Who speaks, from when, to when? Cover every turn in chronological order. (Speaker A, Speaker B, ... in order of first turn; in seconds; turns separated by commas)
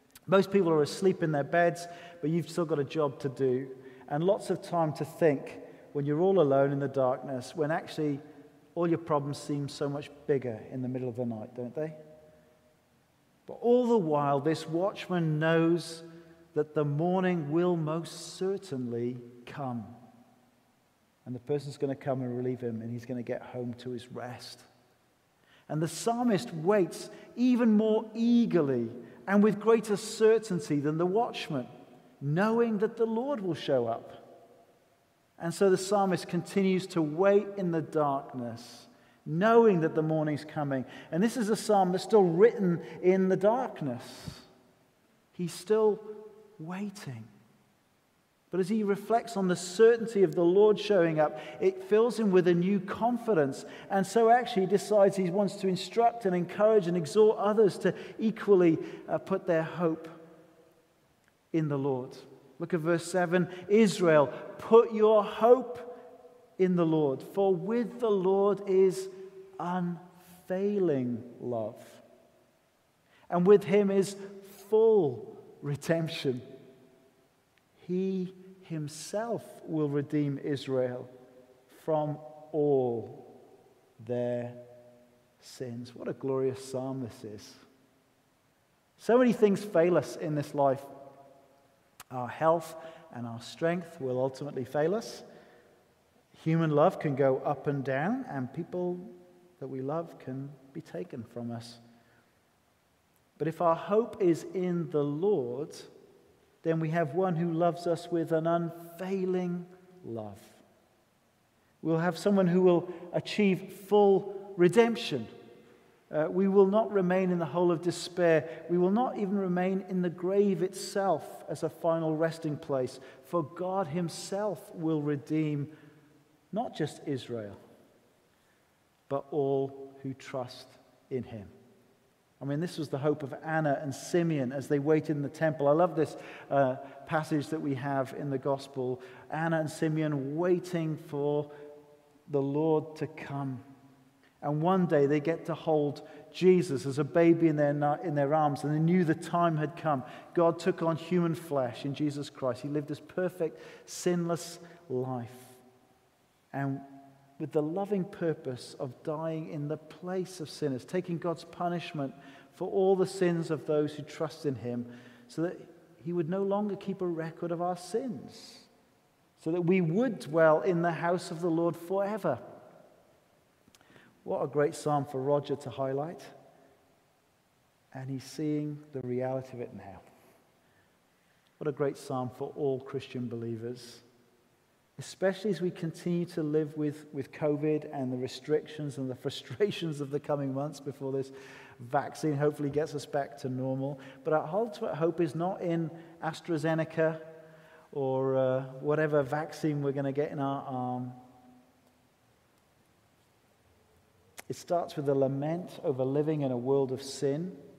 Speaker A: 0.3-8.2, Speaker A: 8.8-12.0, Speaker A: 13.5-19.9, Speaker A: 21.2-24.7, Speaker A: 25.7-31.7, Speaker A: 32.2-34.2, Speaker A: 35.4-44.5, Speaker A: 45.3-47.3, Speaker A: 48.5-60.2, Speaker A: 61.5-66.0, Speaker A: 66.6-72.0, Speaker A: 73.3-76.4, Speaker A: 77.8-81.1, Speaker A: 81.7-83.3, Speaker A: 84.0-84.6, Speaker A: 85.4-87.6, Speaker A: 89.0-90.9, Speaker A: 92.1-95.2, Speaker A: 96.3-101.8, Speaker A: 103.4-105.9, Speaker A: 106.6-110.6, Speaker A: 111.8-115.3, Speaker A: 116.1-125.7, Speaker A: 126.5-127.6, Speaker A: 129.1-131.5, Speaker A: 132.4-141.5, Speaker A: 142.3-143.6, Speaker A: 144.4-155.6, Speaker A: 156.5-156.9, Speaker A: 157.4-168.7, Speaker A: 169.4-172.4, Speaker A: 174.2-176.3, Speaker A: 177.9-180.0, Speaker A: 181.6-184.0, Speaker A: 185.0-197.3, Speaker A: 197.9-201.2, Speaker A: 204.5-207.6